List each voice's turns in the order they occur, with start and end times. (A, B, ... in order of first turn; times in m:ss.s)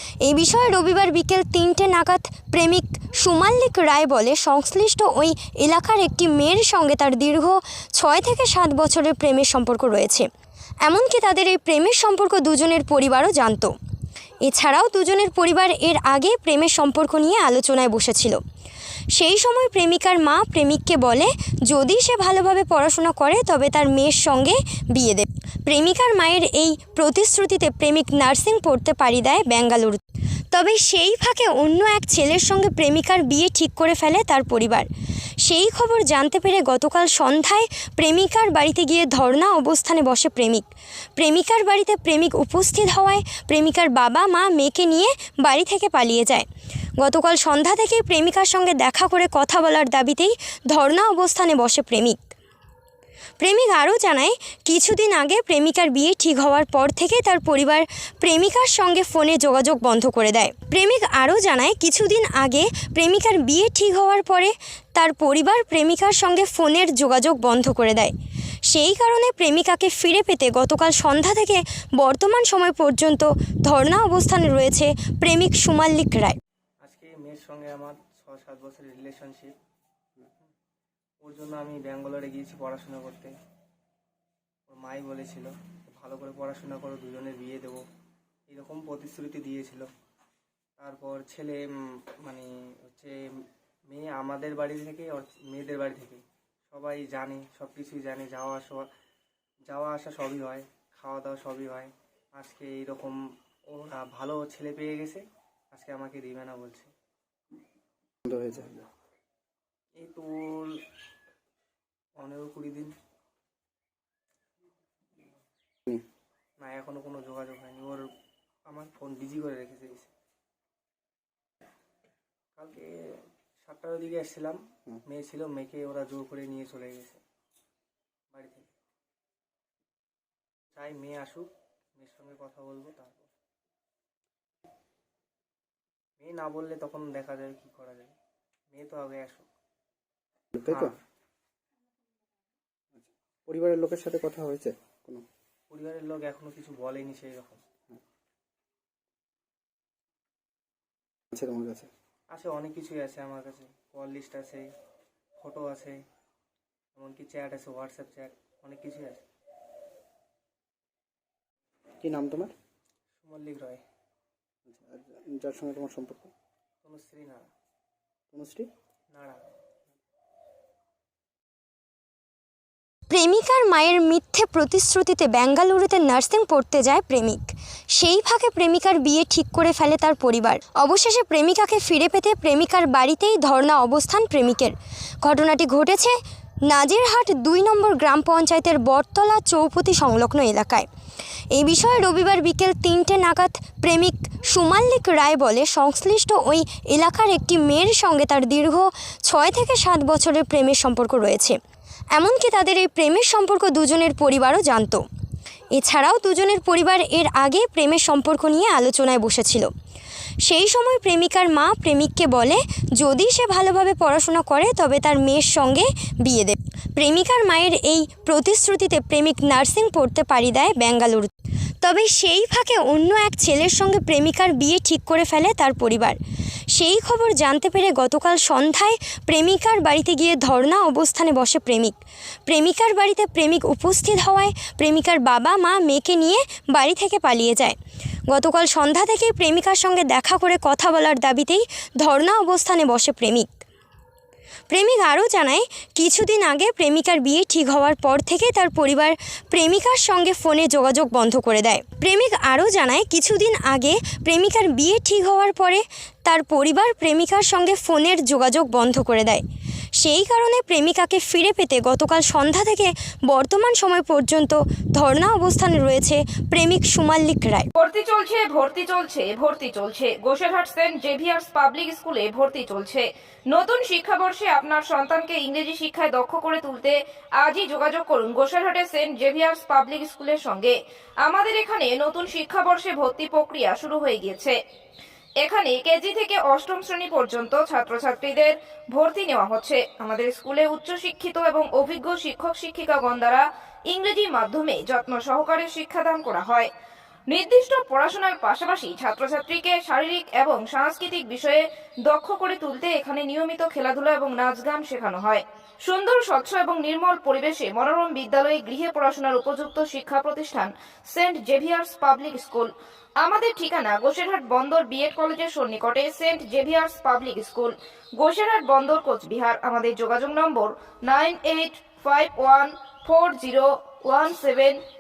0:00.2-0:10.3 A
0:10.8-0:13.7 A
0:14.4-0:18.4 A
0:19.1-0:34.9 A
0:35.4-0:40.6 A
0:41.2-0:46.5 A
0:47.0-0:52.2 A
0:53.4-1:08.1 A
1:08.7-1:16.4 A
1:16.8-1:19.6 B
1:21.2-1:23.3 B
1:24.7-1:27.8 B
1:28.5-1:29.9 B
1:30.8-1:31.6 B
1:32.2-1:33.2 B
1:33.9-1:38.9 B
1:39.7-1:43.2 B
1:43.7-1:46.9 B
1:48.2-1:48.9 C
1:50.0-1:50.7 B
1:52.2-1:52.9 B
1:56.6-1:58.1 B
1:58.7-2:00.1 B
2:02.6-2:03.0 B
2:03.6-2:07.2 B
2:08.3-2:08.7 B
2:10.7-2:13.3 B
2:16.2-2:18.1 B
2:18.7-2:19.5 B
2:20.5-2:20.9 C
2:20.7-2:21.0 B
2:22.9-2:25.2 C
2:25.7-2:27.6 B
2:31.3-2:31.9 C
2:32.3-2:34.7 B
2:35.4-2:36.0 B
2:37.0-2:39.2 B
2:42.0-2:42.5 C
2:43.2-2:43.8 B
2:44.7-2:46.3 C
2:46.8-2:47.5 B
2:48.3-2:48.7 C
2:49.1-2:49.4 B
2:53.1-3:10.9 A
3:11.5-3:21.6 A
3:22.1-3:25.0 A
3:25.7-3:29.7 A
3:30.4-3:46.2 A
3:46.7-3:52.0 A
3:52.5-3:57.8 A
3:58.3-4:03.5 A
4:04.7-4:19.4 A
4:20.0-4:27.7 A
4:27.8-4:44.6 D
4:45.4-4:56.7 D
4:57.3-5:12.7 D
5:13.2-5:24.6 D